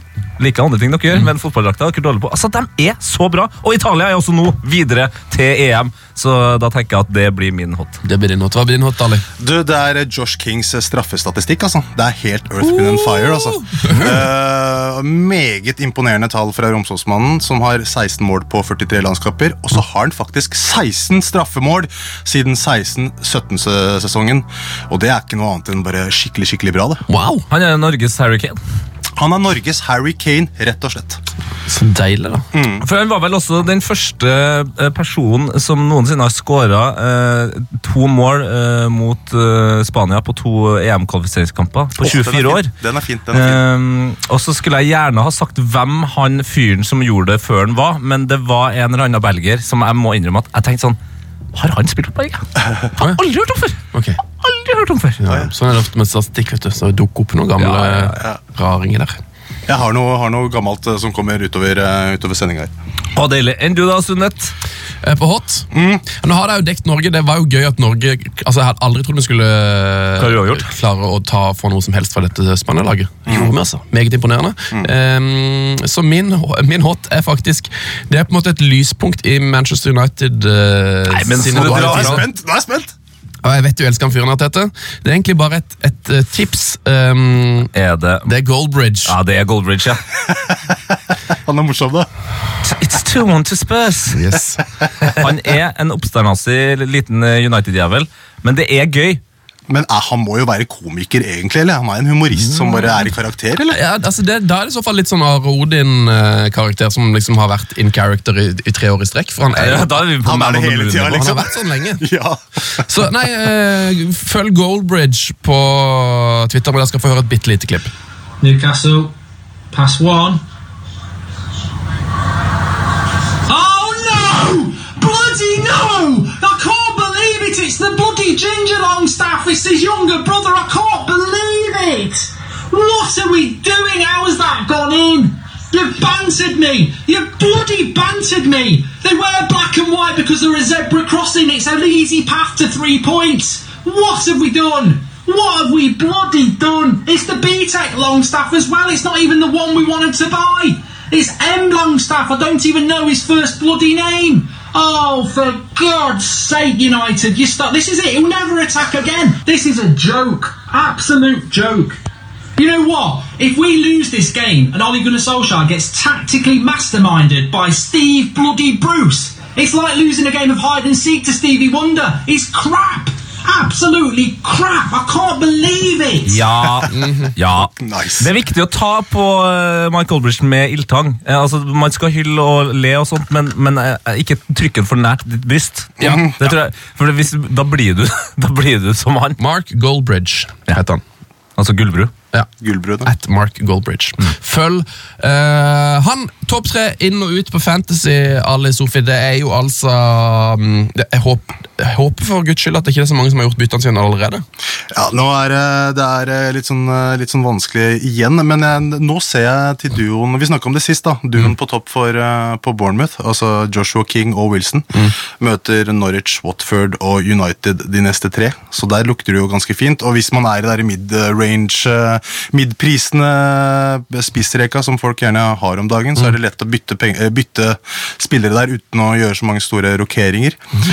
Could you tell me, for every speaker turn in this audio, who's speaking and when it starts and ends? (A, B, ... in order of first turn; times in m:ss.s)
0:00.4-0:08.0 A
0:08.0-0:09.2 B
0:09.4-0:27.0 C
0:12.6-0:14.2 B
0:27.1-0:27.4 B
0:27.5-0:28.6 A
0:29.2-0:31.2 C
0:31.7-0:32.4 B
0:32.5-0:32.8 C
0:32.8-0:42.7 A
0:42.0-0:43.6 C
0:43.3-0:51.0 A
0:51.5-0:52.4 A
0:53.0-0:53.8 A
0:53.9-0:54.2 B
0:54.4-0:55.2 A
0:55.2-0:59.1 B
0:57.6-0:58.2 A
0:59.7-1:02.7 C
1:03.1-1:04.5 A
1:05.0-1:22.2 B
1:05.7-1:06.0 C
1:10.2-1:10.7 A
1:13.3-1:13.5 C
1:21.1-1:22.2 A
1:21.6-1:22.9 C
1:23.4-1:27.7 B
1:27.7-1:28.3 A
1:28.2-1:29.1 B
1:29.0-1:30.0 A
1:30.3-1:32.1 C
1:32.6-1:34.3 A
1:34.1-1:34.6 B
1:35.1-1:39.2 A
1:39.7-1:43.8 C
1:42.3-1:43.1 A
1:43.7-1:50.0 B
1:49.5-1:51.4 A
1:50.2-1:52.8 C
1:51.0-1:52.0 B
1:52.9-1:57.9 B
1:58.4-1:59.1 D
1:59.7-2:00.4 D
2:03.5-2:42.0 D
2:42.6-2:56.4 D
2:56.2-3:09.4 A
2:56.9-2:57.3 B
2:57.8-2:58.3 C
3:06.0-3:06.2 B
3:06.0-3:06.5 C
3:09.4-3:11.0 B
3:11.6-3:12.1 A
3:12.6-3:13.1 C
3:13.0-3:24.4 B
3:24.9-3:50.6 C